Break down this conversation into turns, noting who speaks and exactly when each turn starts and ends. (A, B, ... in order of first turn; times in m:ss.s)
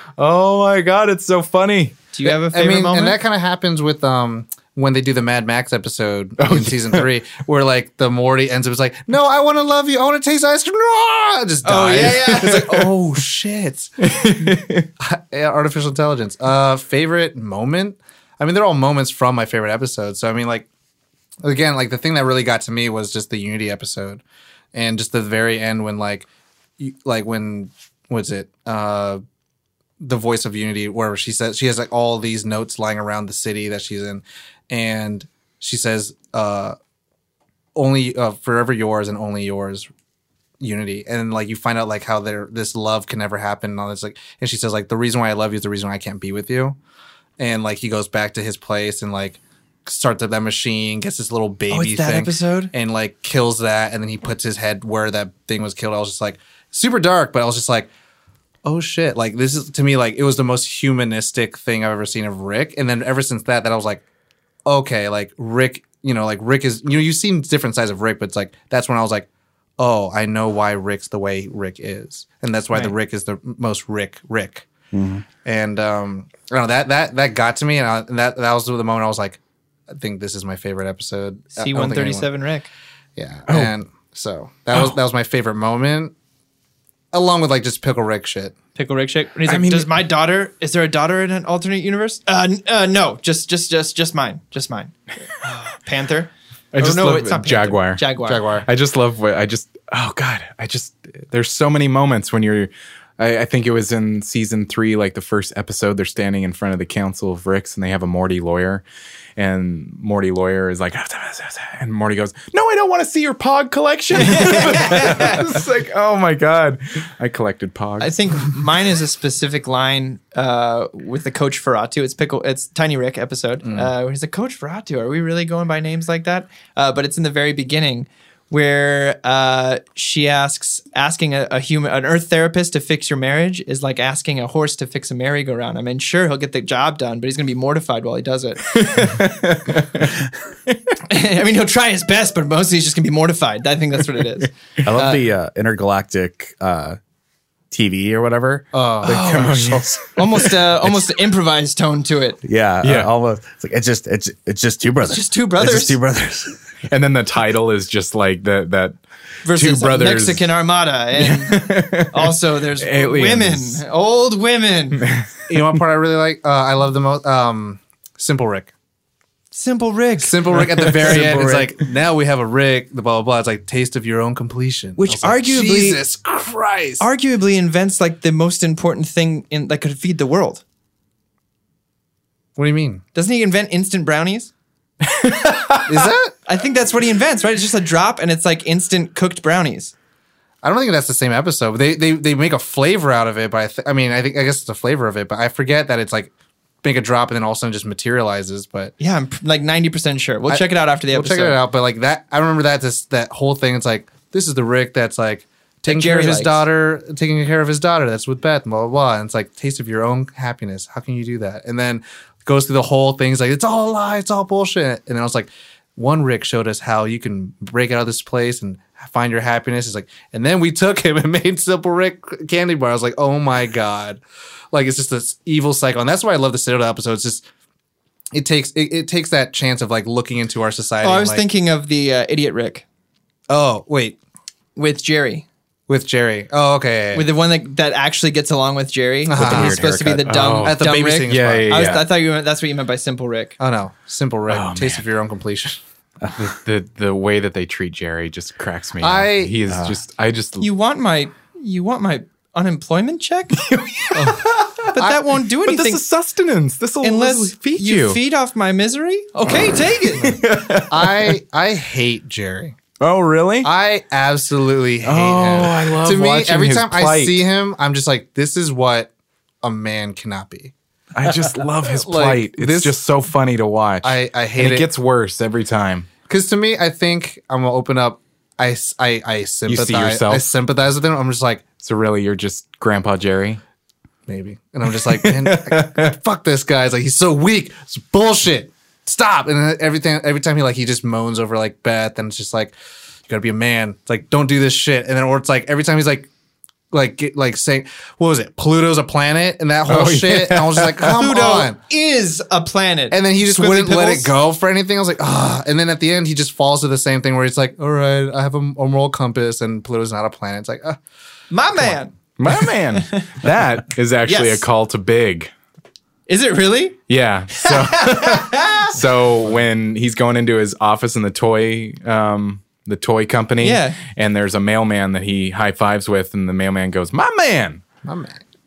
0:00.2-0:02.1 A
0:02.1-0:03.2 B
0:02.4-0:13.9 C
0:06.4-0:07.1 A
0:11.6-0:12.9 B
0:14.0-0:14.9 A
0:14.5-0:20.7 C
0:21.4-0:24.2 C
0:24.7-0:26.3 C
0:26.8-0:29.2 C
0:30.0-0:36.8 C
0:37.7-0:39.9 C
0:40.6-0:46.8 C
0:47.4-0:57.9 C
0:51.7-0:52.7 B
0:58.6-1:04.0 C
1:04.6-1:09.3 C
1:09.8-1:14.7 C
1:14.9-1:15.2 D
1:15.4-1:19.4 C
1:19.9-1:22.3 C
1:21.6-1:22.7 B
1:23.2-1:26.1 C
1:27.1-1:28.5 C
1:28.7-1:38.4 B
1:29.4-1:29.9 A
1:36.7-1:38.0 A
1:38.2-1:38.7 C
1:38.6-1:48.8 A
1:49.4-1:58.1 A
1:54.2-1:55.5 B
1:58.0-2:18.7 B
2:03.6-2:03.9 C
2:18.7-2:20.8 A
2:21.0-2:25.2 B
2:24.8-2:27.0 D
2:27.7-2:29.8 D
2:28.7-2:29.2 C
2:29.0-2:32.4 B
2:29.0-2:30.1 A
2:32.4-2:36.6 D
2:32.8-2:33.1 A
2:35.1-2:36.0 B
2:36.9-2:40.5 A
2:39.4-2:45.1 B
2:41.2-2:43.8 A
2:45.0-2:45.3 A
2:45.5-2:48.7 C
2:49.5-2:50.8 B
2:50.2-2:57.0 C
2:50.8-2:51.2 A
2:51.0-2:51.7 D
2:55.0-2:56.0 B
2:57.0-3:00.6 B
3:02.6-3:03.0 C
3:03.1-3:04.5 B
3:05.0-3:06.1 A
3:05.8-3:06.3 C
3:06.4-3:09.9 B
3:10.6-3:16.3 C
3:16.8-3:18.9 C
3:19.0-3:21.6 B
3:20.5-3:44.2 C
3:25.9-3:26.6 B
3:44.7-3:47.4 C
3:48.3-3:51.4 C
3:51.0-3:52.8 B
3:53.5-3:54.2 C
3:54.8-3:55.4 B
3:55.9-3:57.3 C
3:57.1-4:03.6 B
3:59.3-3:59.8 C
3:59.3-4:00.4 D
4:00.3-4:02.1 A
4:00.3-4:02.0 C
4:03.6-4:05.8 C
4:04.5-4:05.0 A
4:06.4-4:10.7 A
4:09.0-4:09.5 C
4:09.7-4:10.0 D
4:10.6-4:13.6 B
4:13.6-4:14.9 A
4:14.1-4:14.4 C
4:14.9-4:16.0 B
4:15.6-4:18.2 A
4:17.0-4:20.4 B
4:20.2-4:21.4 A
4:20.3-4:22.8 C
4:23.0-4:23.7 A
4:23.6-4:29.1 C
4:25.0-4:27.4 A
4:29.6-4:30.7 C
4:31.1-4:36.1 A
4:31.8-4:32.9 C
4:34.0-4:34.9 C
4:36.3-4:41.7 C
4:39.7-4:40.5 A
4:41.8-4:43.6 A
4:44.3-4:52.7 C
4:44.9-4:46.1 A
4:53.2-4:56.3 C
4:56.9-5:01.8 C
4:59.9-5:01.2 A
5:01.1-5:04.4 B
5:03.1-5:11.0 C
5:11.5-5:12.1 B
5:12.4-5:15.5 A
5:12.9-5:13.4 B
5:14.2-5:14.6 B
5:16.3-5:17.0 B
5:17.1-5:27.8 A
5:17.5-5:19.0 B
5:23.6-5:24.0 B
5:28.0-5:28.4 C